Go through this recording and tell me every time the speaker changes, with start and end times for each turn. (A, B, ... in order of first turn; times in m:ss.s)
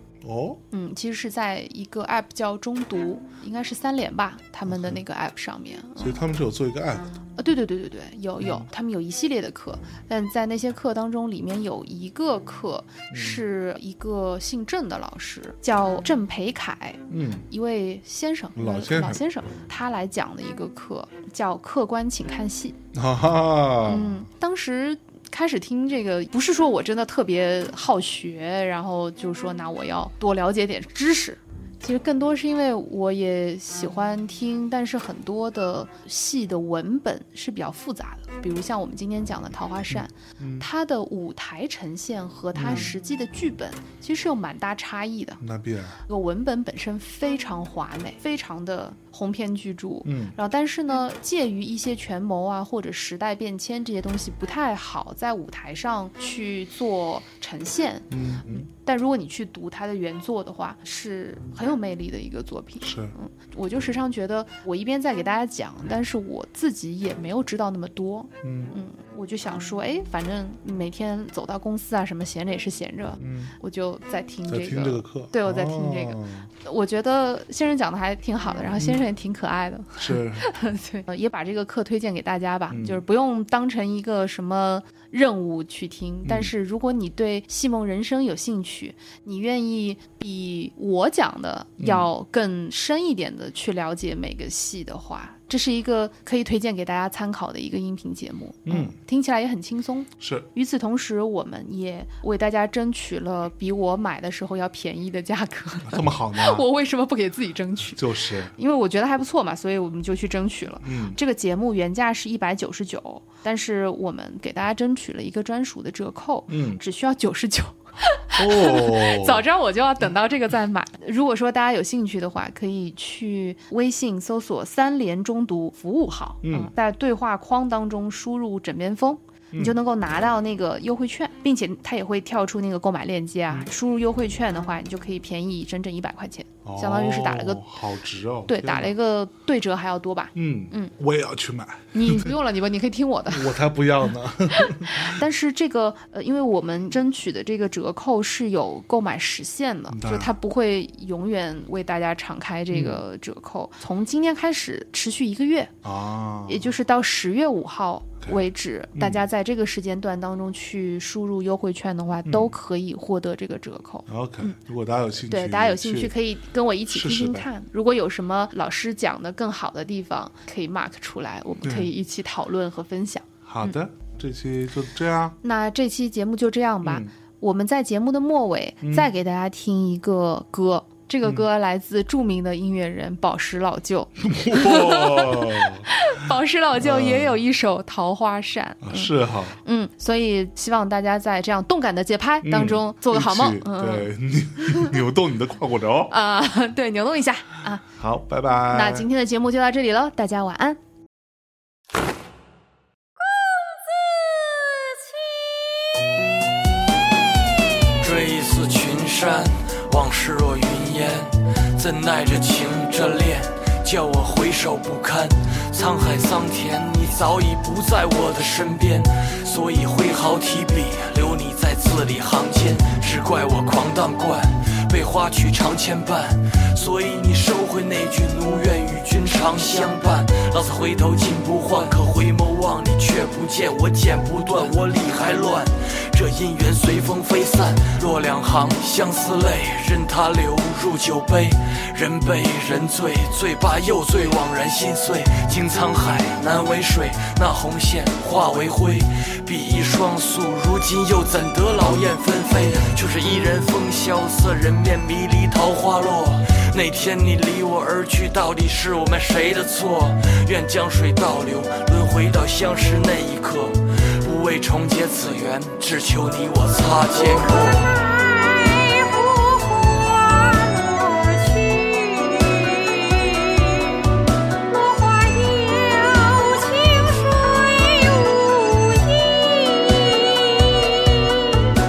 0:00.2-0:00.6 A
0:00.7-0:06.2 B
0:04.6-0:05.0 A
0:06.0-0:07.1 A
0:07.4-0:22.8 B
0:08.4-0:08.7 A
0:13.1-0:13.4 A
0:17.1-0:17.5 A
0:18.6-0:19.2 A
0:22.9-0:24.2 A
0:23.8-0:45.4 B
0:39.9-0:40.7 A
0:42.5-0:42.9 A
0:45.4-0:46.0 A
0:46.1-2:17.6 B
0:50.0-0:50.4 A
0:58.1-0:58.7 A
1:02.8-1:03.1 A
1:08.4-1:08.7 A
1:13.2-1:13.5 A
1:14.5-1:16.5 A
1:18.7-1:19.0 A
1:20.0-1:20.4 A
1:22.7-1:23.0 A
1:26.2-1:26.5 A
1:31.8-1:32.1 A
1:38.6-1:39.0 A
1:40.2-1:40.5 A
1:45.8-1:46.7 A
1:47.9-1:48.5 A
1:50.8-1:51.2 A
1:56.5-1:56.8 A
1:58.4-1:59.4 A
2:06.4-2:06.7 A
2:09.5-2:09.8 A
2:16.6-2:18.9 A
2:18.5-2:20.9 B
2:20.3-2:22.4 A
2:21.9-2:23.6 B
2:23.3-2:25.2 A
2:24.5-2:35.8 B
2:29.9-2:30.3 A
2:32.7-2:33.0 A
2:35.8-2:36.7 A
2:36.5-2:44.6 B
2:39.0-2:39.2 A
2:42.2-2:42.5 A
2:44.1-2:46.1 A
2:45.3-2:53.7 B
2:46.9-2:47.5 A
2:51.6-2:51.9 A
2:53.4-2:55.4 A
2:55.4-3:14.9 B
2:56.8-2:57.1 A
2:58.8-2:59.1 A
3:04.2-3:06.1 A
3:06.8-3:07.4 A
3:08.8-3:09.6 A
3:12.4-3:16.1 A
3:16.1-3:17.9 B
3:17.9-3:19.1 A
3:18.7-3:20.8 B
3:28.0-4:33.6 C
4:34.9-4:40.9 C